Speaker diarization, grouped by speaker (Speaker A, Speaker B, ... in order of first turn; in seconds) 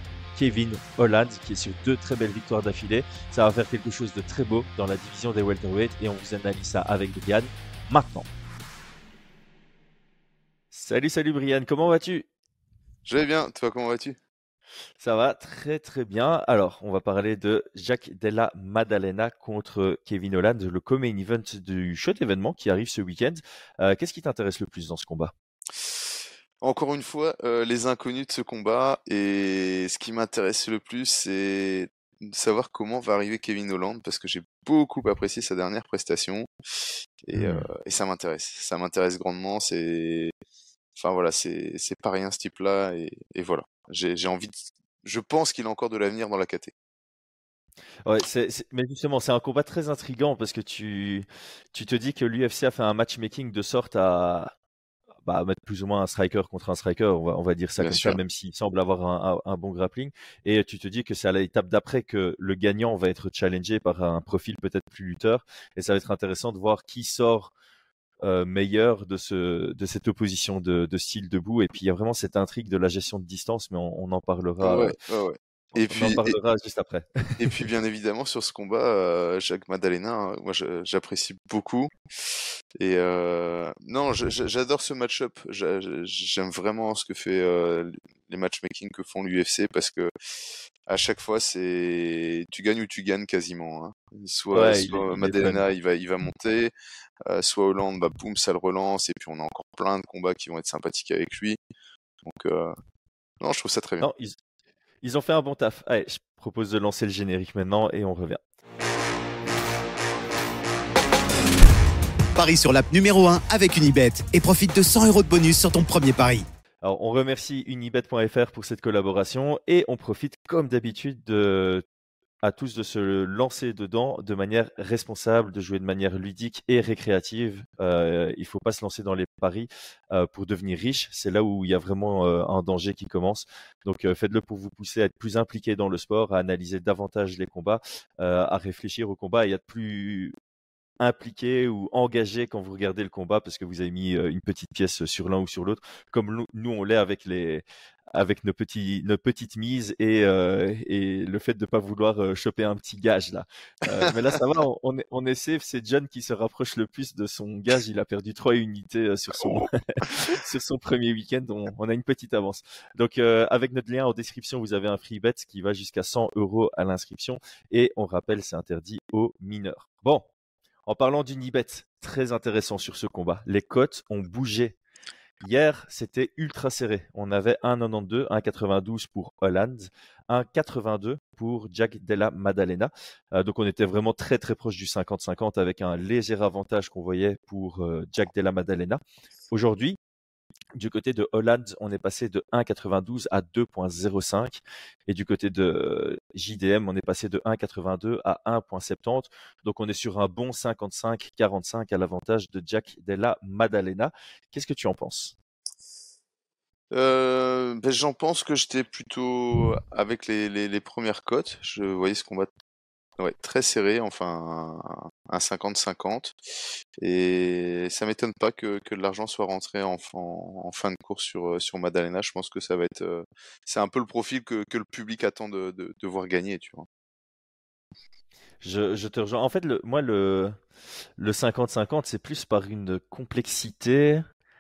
Speaker A: 0.3-8.3, 10.7-12.3, 15.0-25.3, 37.4-37.7, 48.1-54.5, 55.2-67.5, 68.2-75.0, 75.8-77.6, 94.5-95.6, 104.0-104.4, 105.0-108.4, 116.8-121.8, 122.4-140.3, 141.0-170.3, 170.9-174.8, 175.4-190.0, 190.8-205.3, 228.6-230.6, 231.2-234.3
Speaker B: 13.1-14.2, 26.6-36.5, 37.2-40.3, 41.0-46.7, 57.8-58.2, 74.6-76.4, 77.4-81.9, 82.8-90.1, 90.9-96.7, 97.3-101.6, 102.2-102.7, 103.4-104.1, 159.4-159.7, 206.9-212.5, 213.2-216.4, 217.0-226.9
Speaker C: 112.3-116.5